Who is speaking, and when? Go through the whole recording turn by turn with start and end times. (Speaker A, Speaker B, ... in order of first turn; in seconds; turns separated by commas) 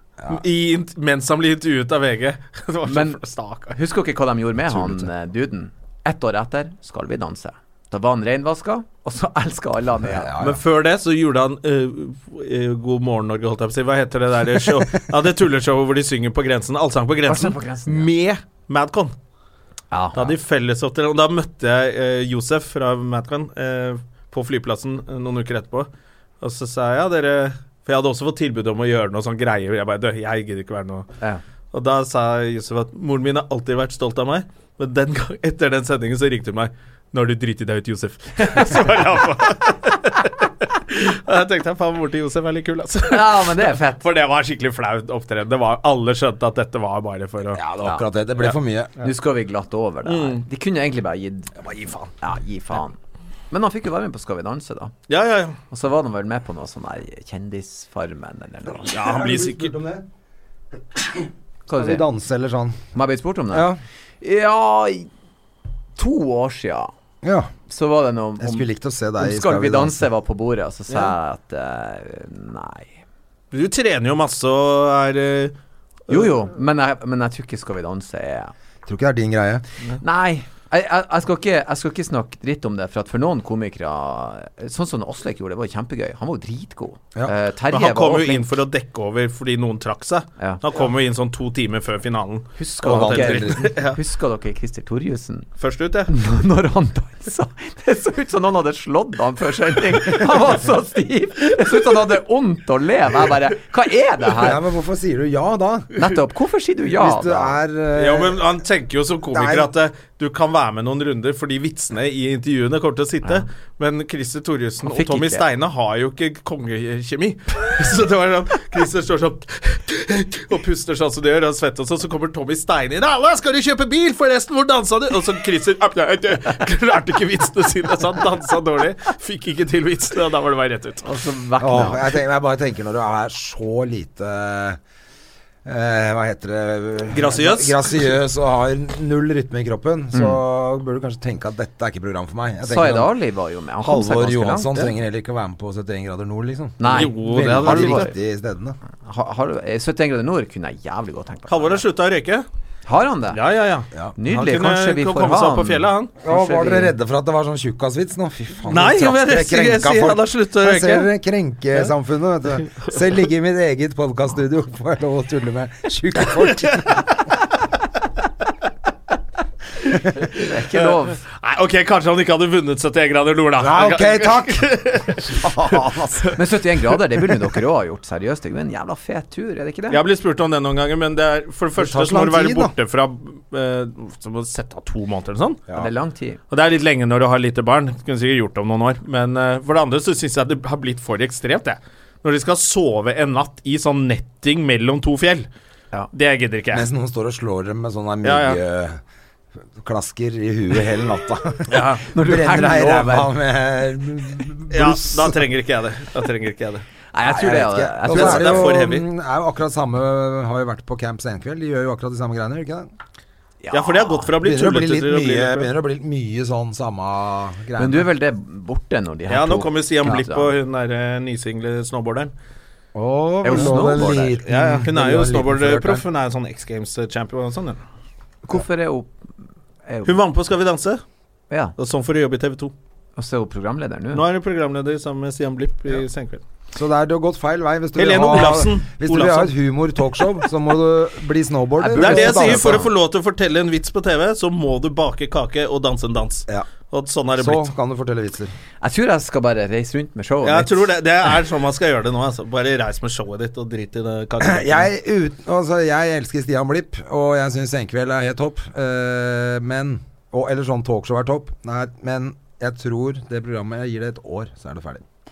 Speaker A: 0.3-3.8, Speaker B: 2.9-3.2, Speaker B: 3.7-10.3, Speaker C: 4.7-5.1, Speaker C: 10.0-10.6, Speaker A: 10.4-19.1, Speaker B: 17.3-18.1, Speaker B: 19.9-20.3, Speaker A: 20.1-25.9, Speaker A: 26.4-31.1, Speaker A: 31.7-47.6, Speaker B: 43.1-44.0, Speaker C: 47.5-48.9, Speaker A: 48.4-49.1, Speaker B: 49.0-51.5, Speaker A: 50.0-50.4, Speaker A: 51.6-52.1, Speaker B: 52.2-53.0, Speaker B: 53.5-54.9, Speaker A: 55.1-55.6, Speaker B: 55.7-59.0, Speaker A: 58.9-59.7, Speaker C: 58.9-60.0, Speaker C: 61.2-62.8, Speaker B: 61.7-62.0, Speaker B: 62.9-63.7, Speaker C: 63.5-63.8, Speaker B: 64.2-65.1, Speaker B: 66.0-66.9, Speaker C: 67.2-67.5, Speaker B: 67.7-72.9, Speaker C: 68.4-70.0, Speaker A: 73.5-75.5, Speaker B: 76.1-78.5, Speaker C: 78.8-79.6, Speaker B: 80.0-88.5, Speaker A: 87.7-94.0, Speaker B: 92.6-95.5, Speaker C: 92.8-93.7, Speaker A: 95.6-96.1, Speaker B: 96.1-104.6, Speaker C: 104.3-105.9, Speaker B: 105.9-107.6, Speaker C: 106.9-108.5, Speaker A: 107.9-131.1, Speaker C: 109.3-109.7, Speaker B: 114.8-115.4, Speaker B: 131.0-132.1, Speaker C: 131.6-134.8, Speaker C: 135.6-143.1, Speaker A: 137.1-138.1, Speaker B: 140.1-140.4, Speaker B: 142.6-144.9, Speaker C: 143.8-148.8, Speaker B: 146.8-148.1, Speaker A: 146.9-148.1, Speaker B: 149.0-151.8, Speaker A: 151.5-152.4, Speaker B: 152.8-153.4, Speaker A: 153.3-156.1, Speaker B: 154.2-156.9, Speaker C: 156.2-167.1, Speaker A: 158.7-161.1, Speaker A: 166.5-167.0, Speaker B: 170.2-171.2, Speaker A: 170.3-176.3, Speaker C: 173.6-176.3, Speaker B: 176.3-180.0, Speaker A: 179.9-185.6, Speaker C: 181.8-182.7, Speaker B: 185.7-186.4, Speaker A: 186.5-195.5, Speaker A: 196.1-196.9, Speaker C: 196.7-199.0, Speaker A: 198.2-198.6, Speaker C: 199.8-205.4, Speaker A: 201.7-202.0, Speaker B: 202.1-203.3, Speaker A: 204.7-206.8, Speaker B: 207.1-208.7, Speaker C: 207.2-212.9, Speaker A: 208.1-209.0, Speaker B: 213.6-214.3, Speaker A: 213.7-215.7, Speaker C: 214.4-218.1, Speaker B: 217.8-220.5, Speaker A: 219.3-222.3, Speaker C: 222.9-226.0, Speaker B: 223.4-224.4, Speaker A: 223.5-227.8, Speaker B: 228.4-229.1, Speaker B: 229.8-230.1, Speaker A: 230.0-231.0, Speaker A: 231.8-232.7, Speaker B: 233.2-234.2, Speaker A: 234.1-236.4, Speaker C: 236.7-242.9, Speaker A: 237.9-239.5, Speaker B: 241.8-242.9, Speaker A: 241.9-247.7, Speaker C: 247.3-248.5, Speaker B: 248.8-250.9, Speaker A: 250.4-254.9, Speaker C: 254.4-265.0